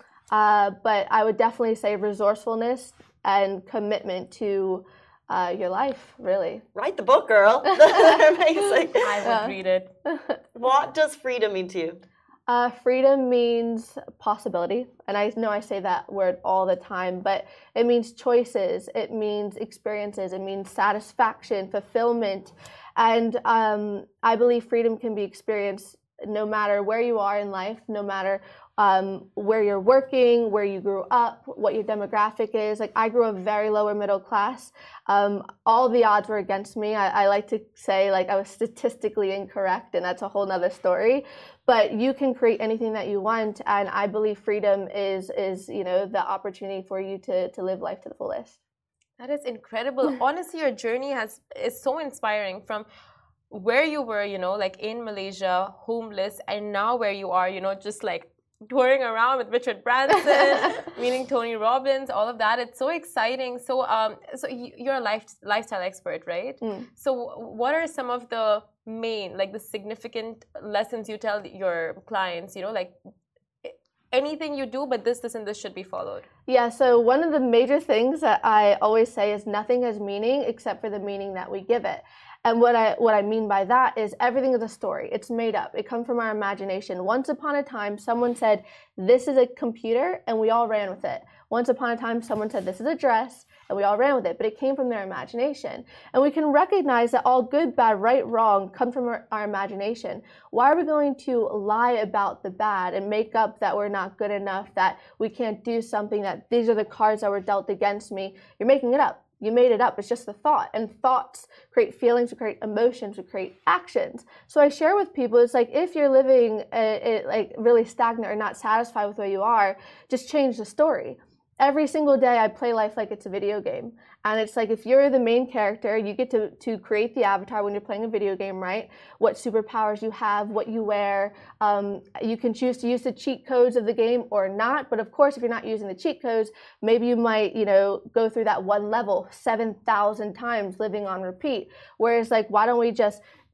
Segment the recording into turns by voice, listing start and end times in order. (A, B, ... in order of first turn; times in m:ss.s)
0:00.3-0:06.6 A
0:06.7-0:09.1 B
0:07.7-0:08.6 A
0:09.0-0:09.9 C
0:09.2-0:10.4 A
0:10.5-0:12.0 B
0:12.5-0:48.6 A
0:49.2-0:52.8 C
0:53.5-1:12.9 C
1:13.6-1:16.3 C
1:16.5-2:23.2 A